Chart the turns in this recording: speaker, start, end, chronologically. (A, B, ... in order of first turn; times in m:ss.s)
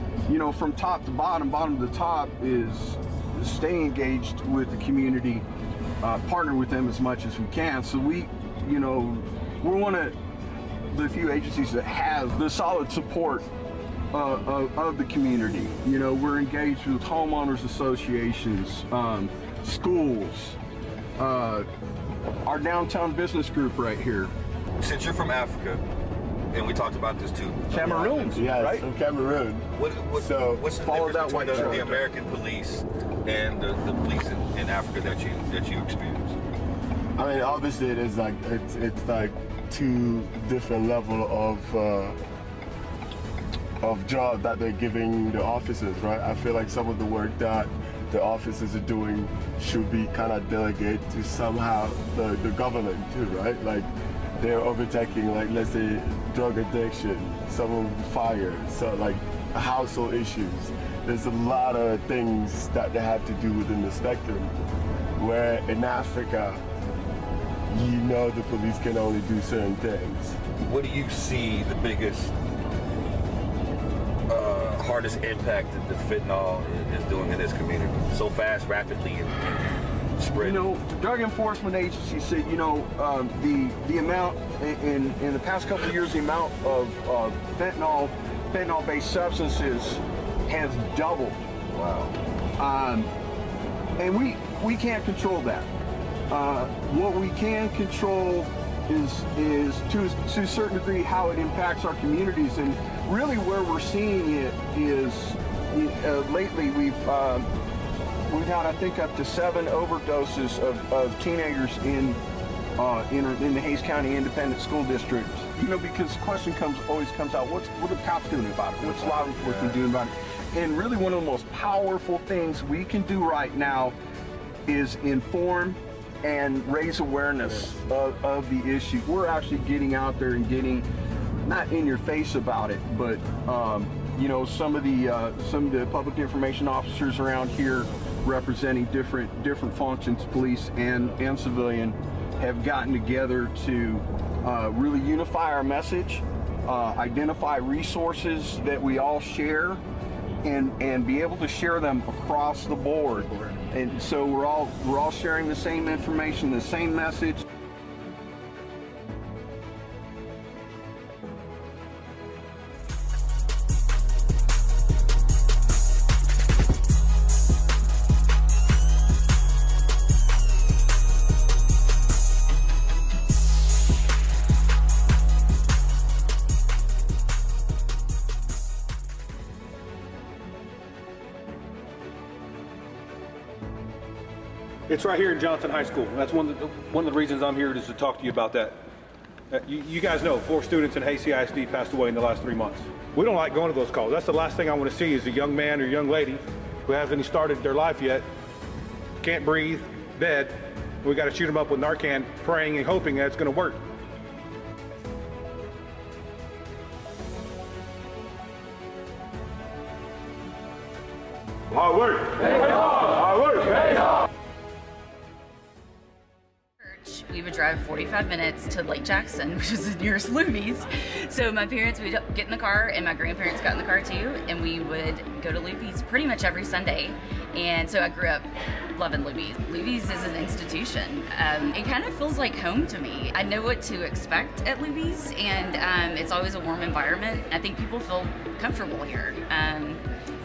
0:00.3-0:05.4 A
0:06.0-0:10.2 A
0:10.9-0:13.5 A
0:14.1-0:20.6 A
0:21.2-0:21.7 A
0:22.4-0:24.3 A
0:24.8-0:25.8 B
0:26.5-0:27.8 B
0:27.7-0:28.8 A
0:27.8-0:30.7 C
0:29.7-0:36.4 B
0:30.8-0:32.1 A
0:31.4-0:31.9 C
0:37.2-0:42.2 C
0:43.8-1:04.5 C
1:05.2-1:06.6 C
1:07.7-1:10.4 C
1:10.6-1:12.3 B
1:14.3-1:20.6 B
1:20.4-1:31.5 A
1:31.7-1:32.1 B
1:32.6-1:33.1 A
1:34.0-1:35.7 A
1:36.3-1:47.5 A
1:48.3-1:52.2 A
1:52.8-2:04.0 A
1:58.8-1:59.8 B
2:04.7-2:10.9 A
2:11.4-2:29.8 A
2:30.4-2:37.4 A
3:04.9-3:08.8 D
3:09.5-3:18.2 D
3:19.2-3:23.8 D
3:31.8-3:34.0 D
3:36.8-4:00.0 E